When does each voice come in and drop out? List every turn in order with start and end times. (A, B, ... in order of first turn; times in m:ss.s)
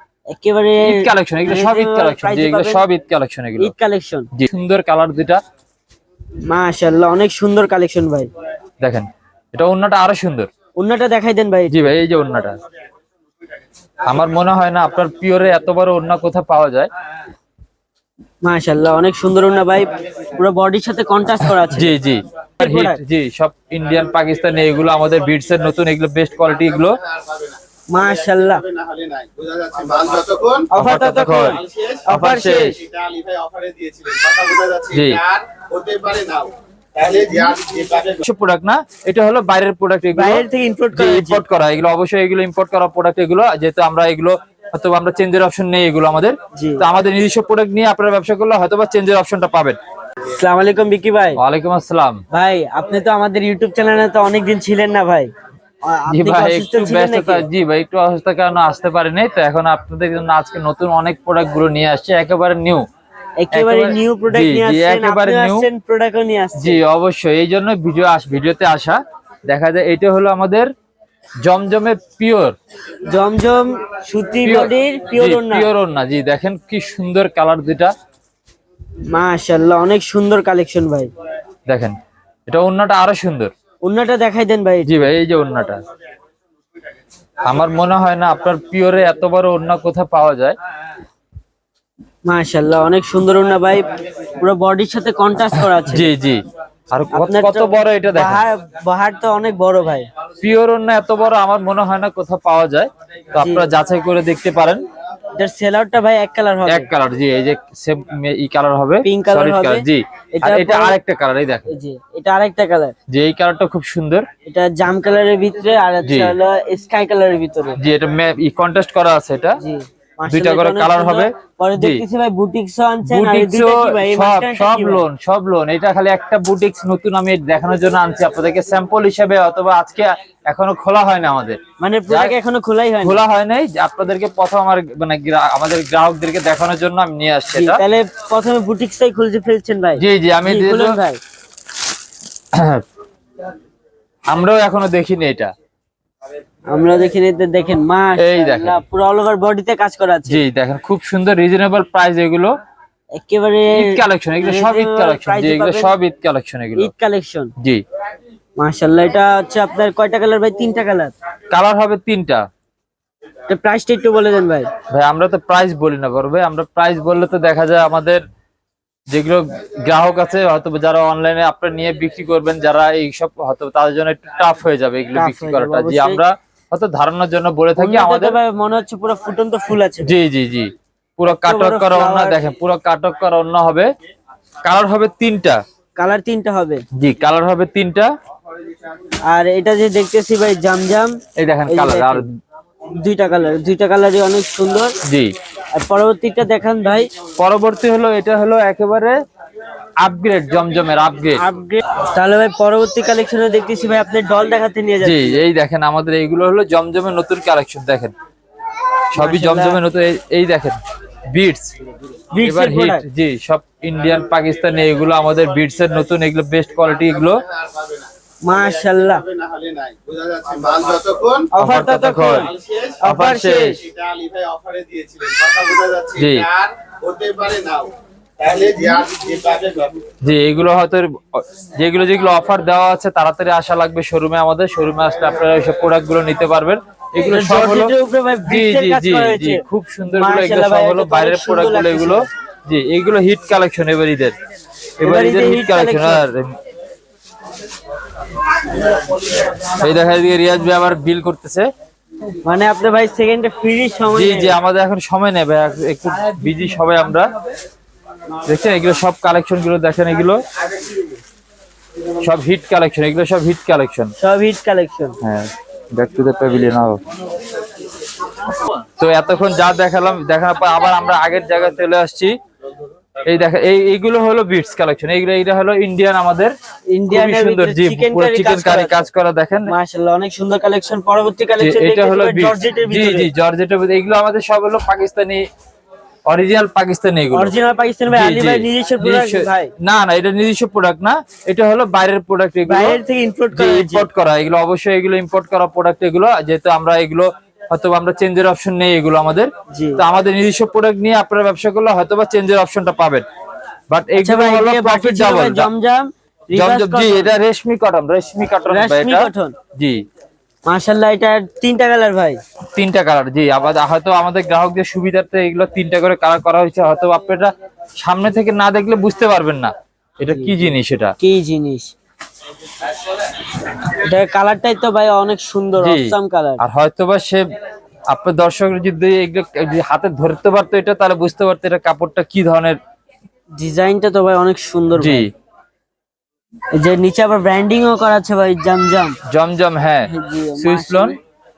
0:00.3-0:02.8 A
0:00.8-0:03.7 B
0:03.6-0:04.3 A
0:04.3-0:05.4 B
0:06.5-0:08.3 A
0:08.8-0:10.5 B
0:10.8-0:11.9 A
0:11.7-0:12.6 B
0:14.0-0:16.9 B
0:18.4-0:22.0 A
0:21.6-0:27.0 B
0:22.6-0:23.0 A
0:27.2-0:27.6 C
0:27.9-0:28.6 A
0:28.6-0:30.7 C
0:30.7-0:32.8 A
0:30.8-0:32.8 B
0:32.8-0:38.2 C
0:34.9-0:35.2 B
0:38.2-0:49.8 B
0:40.1-0:41.4 A
0:46.5-0:46.8 A
0:50.3-0:51.4 A
0:51.4-0:52.2 B
0:52.3-0:55.3 A
0:55.8-0:57.4 A
0:56.1-1:02.8 B
1:03.4-1:06.8 A
1:03.5-1:05.7 B
1:06.6-1:10.7 B
1:11.4-1:12.6 B
1:13.0-1:15.7 A
1:14.4-1:17.9 B
1:19.1-1:21.1 A
1:21.7-1:22.0 B
1:22.5-1:23.5 B
1:23.8-1:25.1 A
1:24.8-1:25.8 B
1:27.4-1:30.6 B
1:32.3-1:36.1 A
1:35.8-1:38.4 B
1:37.1-1:40.1 A
1:40.4-1:44.8 B
1:43.4-1:43.7 A
1:45.4-1:46.9 A
1:46.7-1:51.7 B
1:49.0-1:51.0 A
1:51.7-1:52.9 A
1:53.1-1:54.3 B
1:54.4-1:57.8 A
1:56.0-1:56.3 B
1:57.8-1:59.6 B
1:59.6-2:05.0 A
2:00.3-2:02.0 B
2:03.0-2:11.6 B
2:11.8-2:13.2 A
2:12.1-2:12.3 B
2:13.0-2:17.8 B
2:17.5-2:21.2 A
2:20.0-2:21.0 B
2:22.5-2:22.8 B
2:24.3-2:25.5 B
2:26.7-2:30.4 A
2:28.2-2:28.8 B
2:30.3-2:32.5 B
2:33.2-2:35.9 A
2:33.7-2:36.9 B
2:36.8-2:37.5 A
2:38.6-2:41.1 A
2:41.5-2:42.4 B
2:43.5-2:44.7 A
2:44.9-2:48.2 B
2:49.1-2:58.4 B
2:55.1-2:56.2 A
2:57.8-3:00.1 A
3:00.0-3:03.9 B
3:01.4-3:02.5 A
3:04.6-3:05.6 B
3:06.0-3:06.8 A
3:06.9-3:08.1 B
3:09.3-3:12.2 A
3:11.4-3:12.3 B
3:12.9-3:14.9 A
3:15.0-3:15.3 B
3:15.7-3:17.1 A
3:17.4-3:19.1 B
3:20.0-3:21.4 B
3:21.3-3:25.4 A
3:25.0-3:28.1 B
3:29.1-3:30.8 B
3:29.1-3:29.8 A
3:31.3-3:31.7 B
3:32.3-3:33.0 A
3:32.4-3:37.4 B
3:37.5-3:38.1 C
3:38.4-3:39.2 A
3:39.3-3:41.5 C
3:41.5-3:43.8 A
3:41.6-3:42.5 B
3:42.6-3:43.0 C
3:43.0-3:43.8 B
3:43.8-3:50.0 C
3:46.2-3:46.5 B
3:50.2-3:57.9 B
3:57.2-4:02.3 A
3:58.5-4:04.3 B
4:05.0-4:06.6 B
4:05.0-4:06.2 A
4:09.4-4:11.7 B
4:12.4-4:14.6 A
4:14.1-4:17.3 B
4:18.4-4:20.4 B
4:22.2-4:24.1 B
4:24.2-4:25.2 A
4:25.2-4:27.0 B
4:29.0-4:32.4 B
4:33.2-4:36.5 B
4:36.9-4:39.1 A
4:37.1-4:39.7 B
4:39.7-4:43.3 A
4:41.6-4:45.4 B
4:46.3-4:47.5 B
4:47.3-4:49.7 A
4:48.1-4:53.0 B
4:52.6-4:54.1 A
4:53.5-5:03.2 B
4:59.7-5:00.0 A
5:03.9-5:05.7 B
5:04.2-5:07.3 A
5:06.5-5:10.0 B
5:08.7-5:09.6 A
5:10.7-5:12.4 A
5:12.7-5:21.1 B
5:20.3-5:21.9 A
5:23.7-5:26.6 A
5:25.8-5:27.4 B
5:28.1-5:32.8 B
5:33.6-5:35.3 A
5:35.0-5:35.3 B
5:36.7-5:39.2 A
5:39.3-5:41.2 B
5:40.1-5:41.2 A